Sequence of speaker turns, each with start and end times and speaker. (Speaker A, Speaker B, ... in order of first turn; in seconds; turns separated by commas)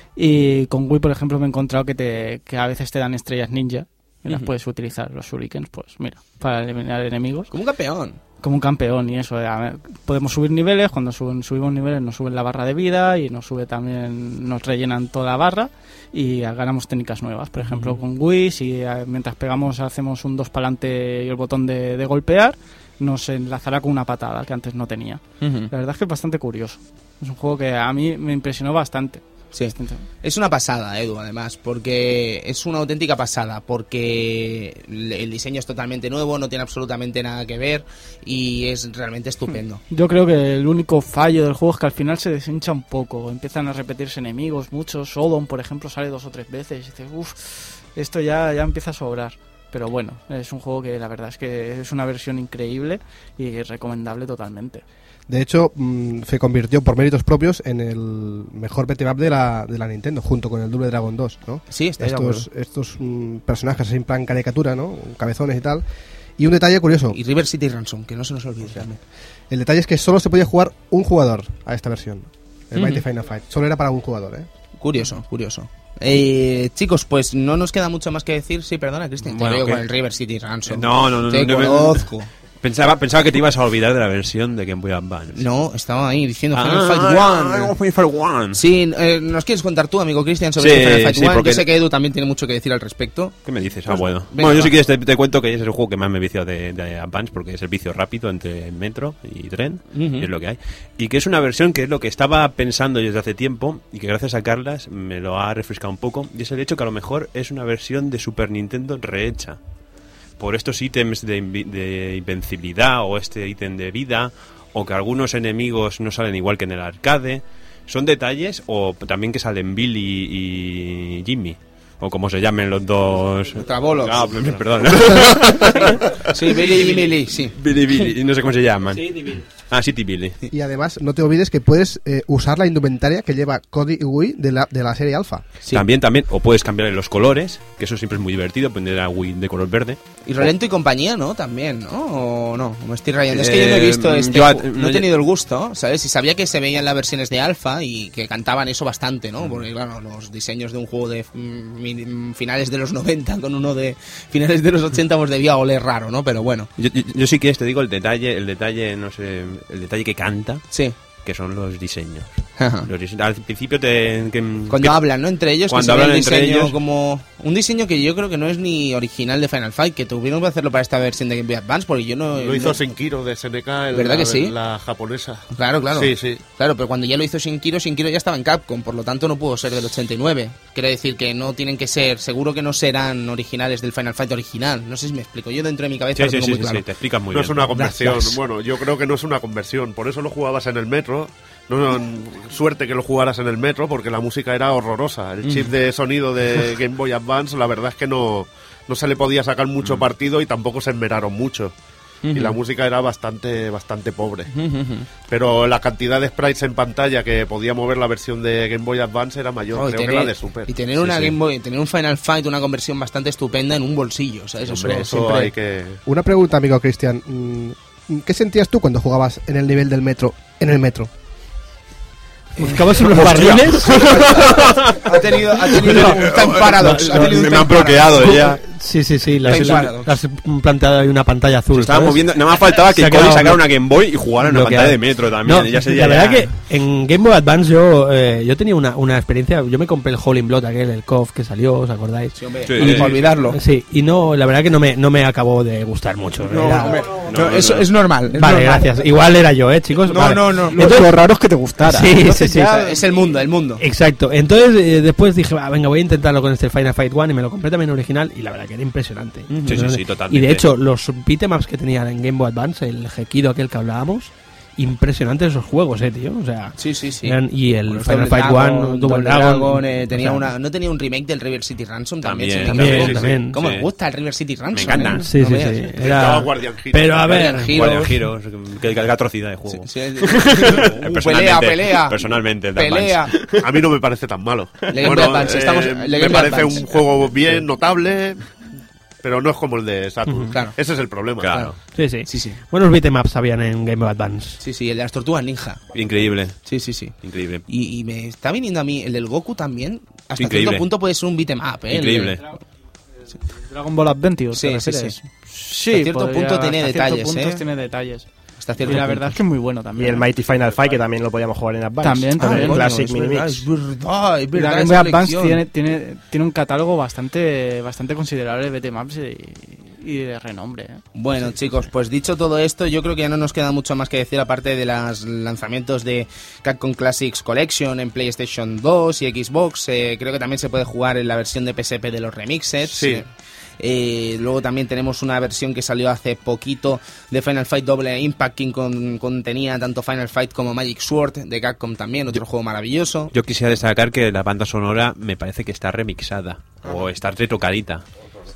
Speaker A: 0.1-7.5, Speaker B: 7.5-8.2, Speaker A: 8.4-29.2, Speaker B: 17.7-17.9, Speaker B: 25.4-25.7, Speaker B: 29.5-39.8, Speaker A: 29.7-30.1, Speaker A: 39.9-54.8, Speaker C: 55.3-65.8, Speaker B: 61.7-62.5, Speaker C: 66.4-67.2, Speaker B: 67.1-69.0, Speaker C: 69.5-74.5, Speaker B: 74.8-82.3, Speaker D: 79.3-79.8, Speaker D: 80.7-82.1, Speaker D: 82.6-85.5, Speaker B: 85.3-87.7, Speaker D: 86.5-88.6, Speaker B: 88.5-94.7, Speaker D: 90.6-91.7, Speaker D: 93.4-109.6, Speaker B: 99.9-100.3, Speaker D: 110.4-130.4, Speaker B: 123.6-124.4, Speaker B: 126.2-127.6, Speaker E: 128.9-129.4, Speaker C: 130.5-135.4, Speaker D: 135.7-140.0, Speaker B: 140.3-156.7, Speaker D: 143.3-145.1, Speaker D: 156.8-160.7, Speaker B: 160.7-160.9, Speaker D: 161.2-165.0, Speaker B: 162.6-162.9, Speaker B: 164.7-172.8, Speaker D: 165.7-166.7, Speaker F: 172.3-176.4, Speaker B: 173.9-174.6, Speaker B: 175.5-186.8, Speaker D: 186.1-187.8, Speaker F: 187.3-201.7, Speaker B: 187.7-188.4, Speaker B: 195.4-195.7, Speaker B: 202.2-202.6, Speaker F: 202.3-204.5, Speaker B: 204.5-205.1, Speaker F: 205.3-211.3, Speaker B: 209.7-215.5, Speaker F: 214.6-216.0, Speaker C: 216.1-221.1, Speaker B: 222.6-228.4, Speaker E: 222.6-224.1, Speaker D: 223.1-225.1, Speaker E: 225.7-227.5, Speaker D: 225.8-228.6, Speaker E: 228.2-233.7, Speaker B: 229.4-230.2, Speaker D: 229.5-229.8, Speaker D: 231.7-236.5, Speaker E: 234.4-247.0, Speaker B: 242.3-243.6, Speaker D: 242.7-243.1, Speaker B: 246.5-248.8, Speaker D: 247.3-247.9, Speaker E: 248.3-251.1, Speaker B: 250.1-251.1, Speaker G: 250.8-252.1, Speaker E: 251.8-252.9, Speaker B: 251.8-253.8, Speaker E: 253.8-270.4, Speaker B: 259.5-259.8, Speaker D: 259.6-260.6, Speaker B: 266.8-275.8, Speaker D: 272.2-273.9, Speaker E: 272.7-273.6, Speaker D: 274.7-275.3, Speaker E: 275.0-278.1, Speaker F: 276.0-277.4, Speaker B: 277.3-278.1, Speaker D: 277.6-283.6, Speaker B: 279.8-283.4, Speaker F: 283.6-288.4, Speaker B: 284.9-287.6, Speaker F: 289.2-291.6, Speaker D: 291.4-291.8, Speaker E: 291.9-294.6, Speaker B: 292.3-292.6, Speaker B: 294.6-295.8, Speaker D: 295.9-297.6, Speaker B: 296.6-297.1, Speaker B: 297.7-302.4, Speaker D: 300.4-300.9, Speaker D: 301.9-302.4, Speaker A: 303.5-308.3, Speaker B: 304.5-305.1, Speaker B: 305.9-307.6, Speaker B: 308.6-309.4, Speaker A: 308.8-310.3, Speaker G: 309.9-313.6, Speaker A: 312.0-312.9, Speaker B: 312.4-315.6, Speaker A: 314.5-321.0, Speaker B: 321.1-333.3, Speaker F: 332.9-333.2, Speaker B: 333.8-343.3, Speaker D: 343.3-348.0